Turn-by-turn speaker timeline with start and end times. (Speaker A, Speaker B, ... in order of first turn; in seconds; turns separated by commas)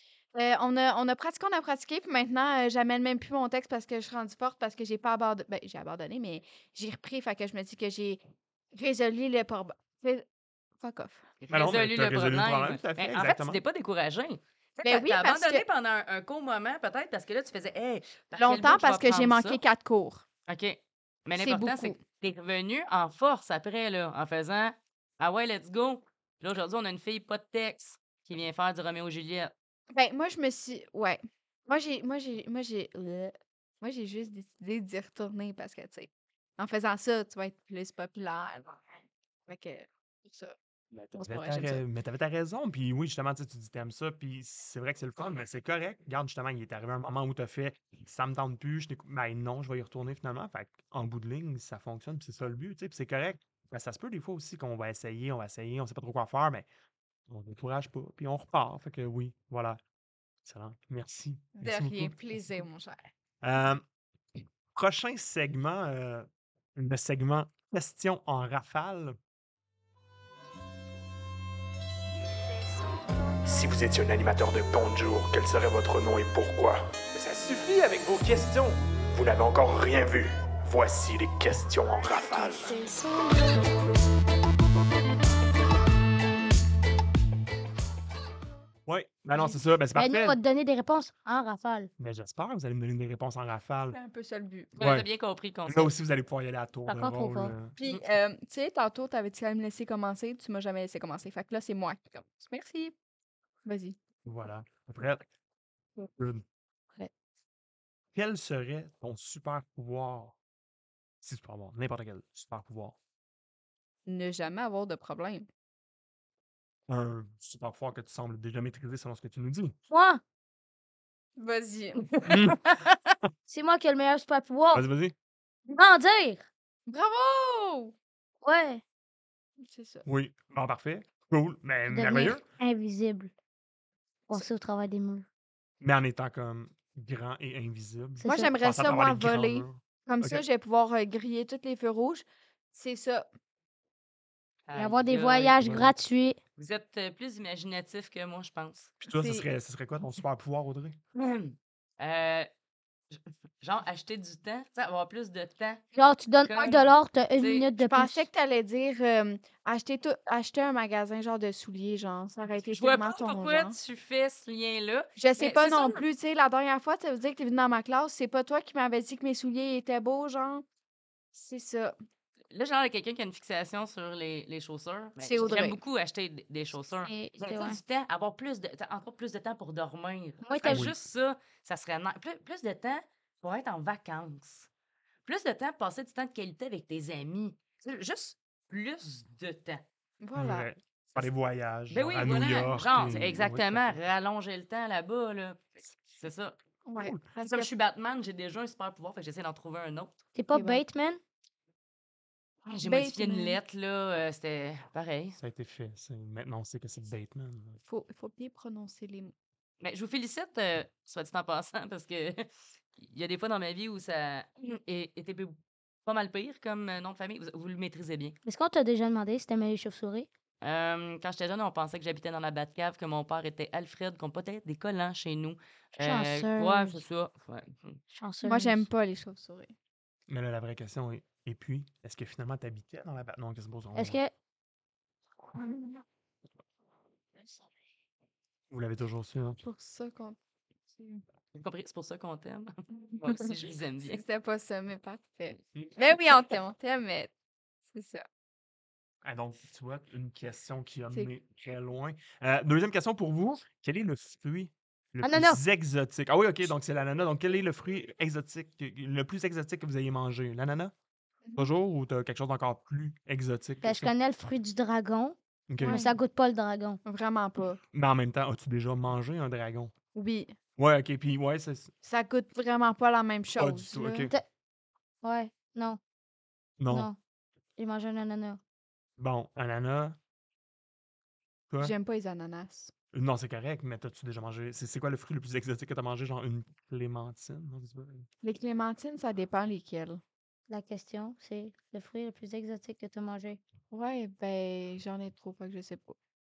Speaker A: 0.3-8.2, Speaker A: 8.7-10.3, Speaker A: 10.8-11.2, Speaker B: 11.4-19.6, Speaker C: 11.5-13.6, Speaker A: 14.8-15.7, Speaker A: 18.4-20.2, Speaker B: 20.5-29.5, Speaker A: 21.4-22.0, Speaker A: 29.9-38.8, Speaker A: 39.5-40.5, Speaker C: 40.9-56.7, Speaker A: 41.1-41.8, Speaker C: 57.3-59.8, Speaker C: 60.5-62.4, Speaker A: 61.6-63.1, Speaker C: 63.4-63.8, Speaker C: 64.7-69.2, Speaker D: 73.5-78.8, Speaker C: 79.2-79.8, Speaker D: 79.7-82.5, Speaker A: 82.2-84.0, Speaker C: 88.9-90.4, Speaker E: 90.0-91.9, Speaker C: 92.0-94.0, Speaker A: 93.9-94.7, Speaker B: 94.8-95.9, Speaker C: 94.8-95.1, Speaker C: 95.7-97.8, Speaker E: 96.9-97.5, Speaker A: 97.8-102.9, Speaker A: 103.7-104.0, Speaker C: 104.2-105.2, Speaker C: 106.2-106.4, Speaker C: 108.1-110.3, Speaker C: 111.2-113.0, Speaker A: 114.1-115.5, Speaker C: 116.9-119.8, Speaker E: 119.9-120.2, Speaker A: 121.4-122.2, Speaker C: 122.3-122.6, Speaker E: 123.5-124.8, Speaker C: 124.7-125.1, Speaker E: 125.7-126.5, Speaker A: 126.9-128.0, Speaker E: 128.4-128.8, Speaker A: 129.6-130.1, Speaker C: 130.1-132.4, Speaker E: 131.9-133.3, Speaker E: 134.3-135.3, Speaker C: 135.8-140.4, Speaker E: 138.2-138.5, Speaker A: 138.2-143.3, Speaker B: 144.7-145.7, Speaker E: 144.8-146.4, Speaker C: 145.6-145.9, Speaker B: 146.6-148.9, Speaker C: 149.0-151.0, Speaker A: 149.1-149.5, Speaker B: 151.2-152.5, Speaker B: 153.1-155.8, Speaker E: 155.9-158.3, Speaker B: 156.4-157.7, Speaker A: 157.8-163.8, Speaker B: 162.7-166.0, Speaker A: 165.2-170.7, Speaker A: 171.3-171.9, Speaker B: 172.5-184.7, Speaker A: 175.2-175.8, Speaker E: 177.0-177.8, Speaker E: 180.4-180.9, Speaker C: 180.7-180.9, Speaker B: 185.2-189.8, Speaker A: 190.2-190.7, Speaker C: 190.4-194.0, Speaker B: 191.9-196.6, Speaker A: 196.8-197.7, Speaker B: 197.4-200.2, Speaker E: 200.3-201.2, Speaker A: 200.5-200.8, Speaker B: 202.7-205.4, Speaker A: 202.8-203.6, Speaker C: 205.4-207.8, Speaker A: 207.9-209.3, Speaker B: 209.8-215.6, Speaker B: 216.1-218.4, Speaker E: 218.4-220.3, Speaker B: 220.6-228.0, Speaker E: 226.0-227.0, Speaker E: 228.1-228.9, Speaker A: 228.4-229.7, Speaker C: 230.3-234.2, Speaker E: 233.9-234.3, Speaker C: 238.7-239.6, Speaker A: 239.6-240.4, Speaker A: 241.0-241.2, Speaker B: 241.6-244.2, Speaker A: 244.1-247.3, Speaker A: 247.9-248.2, Speaker C: 249.2-260.9, Speaker E: 255.2-255.6, Speaker A: 261.4-261.7, Speaker C: 261.6-264.1, Speaker E: 263.8-267.0, Speaker C: 265.7-266.0, Speaker A: 265.8-266.1, Speaker A: 267.1-267.8, Speaker C: 267.9-269.9, Speaker A: 270.1-270.6, Speaker C: 270.8-271.9, Speaker A: 272.0-274.3, Speaker C: 273.6-274.3, Speaker E: 275.2-276.0, Speaker C: 276.8-277.1, Speaker E: 276.9-277.2, Speaker E: 277.8-278.6, Speaker C: 279.2-280.2, Speaker A: 281.8-282.9, Speaker C: 283.1-288.3, Speaker A: 288.4-290.2, Speaker E: 290.7-293.6, Speaker A: 293.9-296.2